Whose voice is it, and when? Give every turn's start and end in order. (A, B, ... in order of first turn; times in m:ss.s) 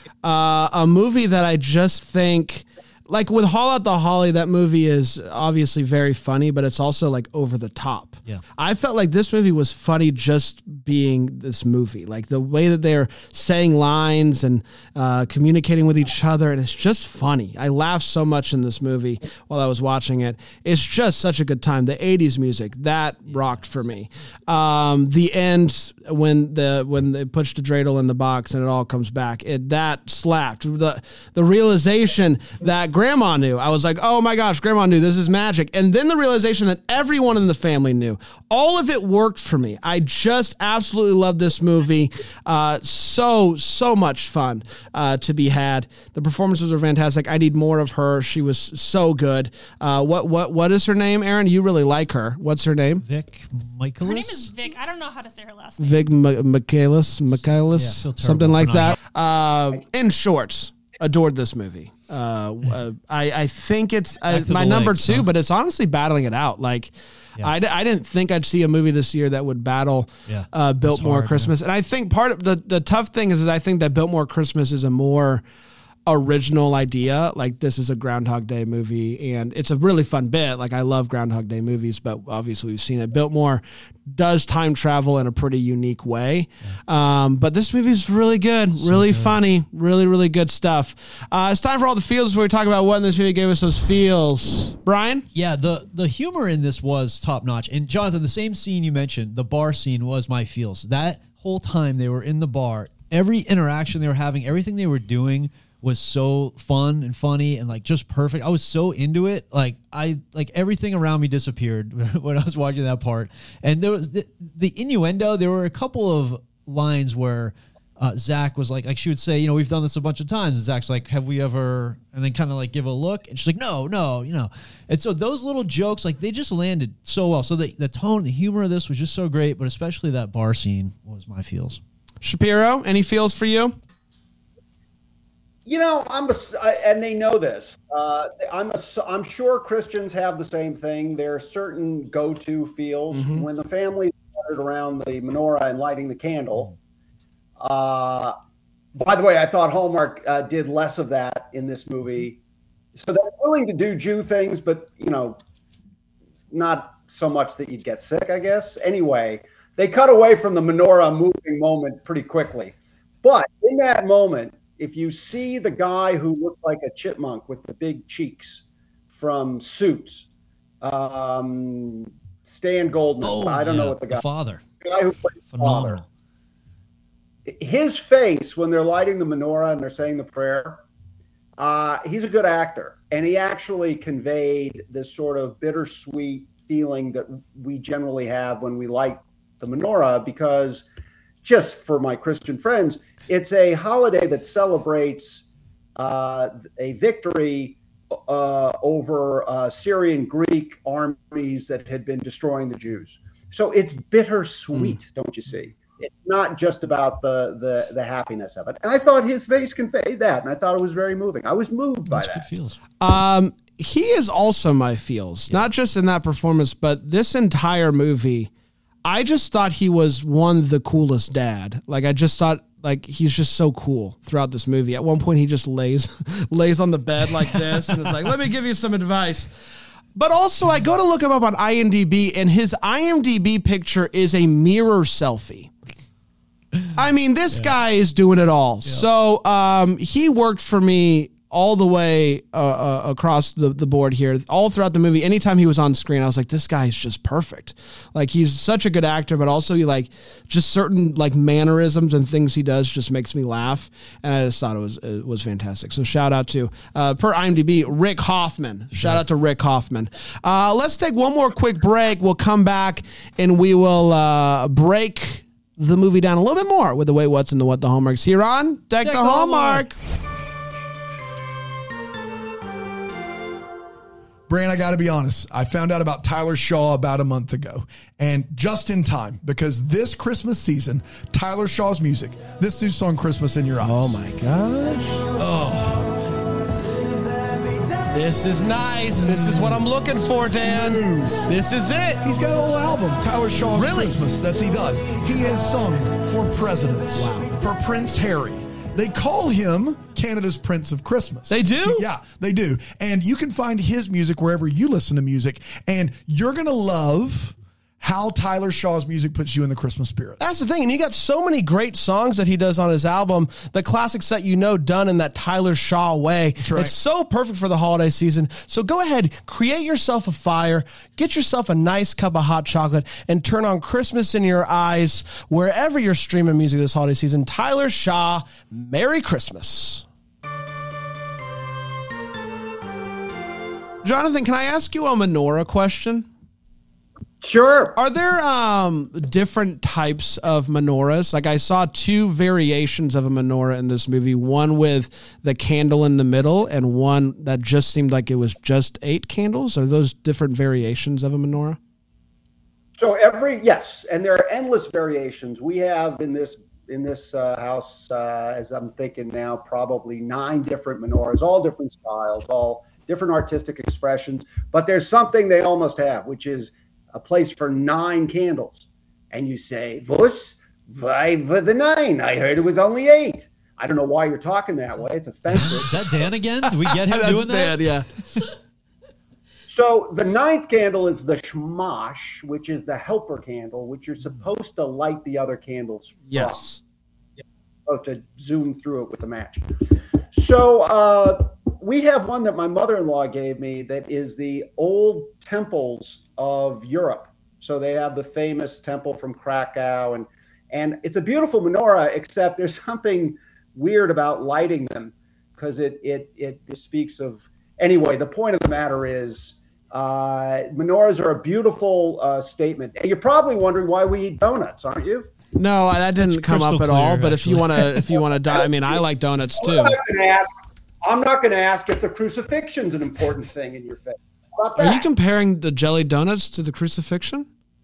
0:00.2-0:53.0 A
0:53.0-0:54.5 B
0:54.0-0:56.2 C
0:55.8-1:15.4 A
0:57.7-0:59.0 B
1:04.3-1:05.3 B
1:10.3-1:11.5 B
1:16.1-1:35.3 A
1:28.8-1:29.4 B
1:35.3-2:11.8 B
2:12.2-2:13.8 A
2:15.7-2:26.7 D
2:23.1-2:23.4 A
2:27.6-2:28.3 D
2:29.0-2:32.4 D
2:32.9-2:35.4 D
2:36.5-2:50.3 D
2:50.8-2:54.2 D
2:53.2-2:54.6 B
2:54.8-2:56.0 D
2:55.5-2:56.1 B
2:57.4-3:00.8 D
3:01.6-3:10.8 D
3:11.4-3:15.4 D
3:16.0-3:32.5 D
3:32.1-3:32.8 B
3:33.0-3:38.5 A
3:39.0-3:49.5 A
3:50.2-3:55.7 A
3:57.0-4:30.0 A
4:18.9-4:19.2 B
4:29.0-4:29.9 B
4:34.5-4:44.2 E
4:44.0-4:45.2 F
4:45.4-4:46.1 E
4:48.1-4:52.2 A
4:49.2-4:49.7 E
4:50.6-4:51.5 E
4:52.2-5:10.4 E
4:53.7-4:54.2 A
4:57.1-4:57.5 A
5:01.5-5:02.1 A
5:10.4-5:30.0 F
5:16.6-5:16.9 E
5:34.0-5:36.3 A
5:37.4-5:38.0 D
5:38.0-5:51.8 A
5:53.0-6:15.9 D
6:15.5-6:17.8 B
6:17.1-6:18.1 A
6:19.7-6:26.7 D
6:26.3-6:26.8 A
6:27.9-6:29.7 D
6:30.3-6:55.3 D
6:55.6-7:00.0 A
6:56.2-6:58.0 B
6:58.5-6:59.0 D
6:59.6-7:05.1 D
7:04.8-7:07.5 A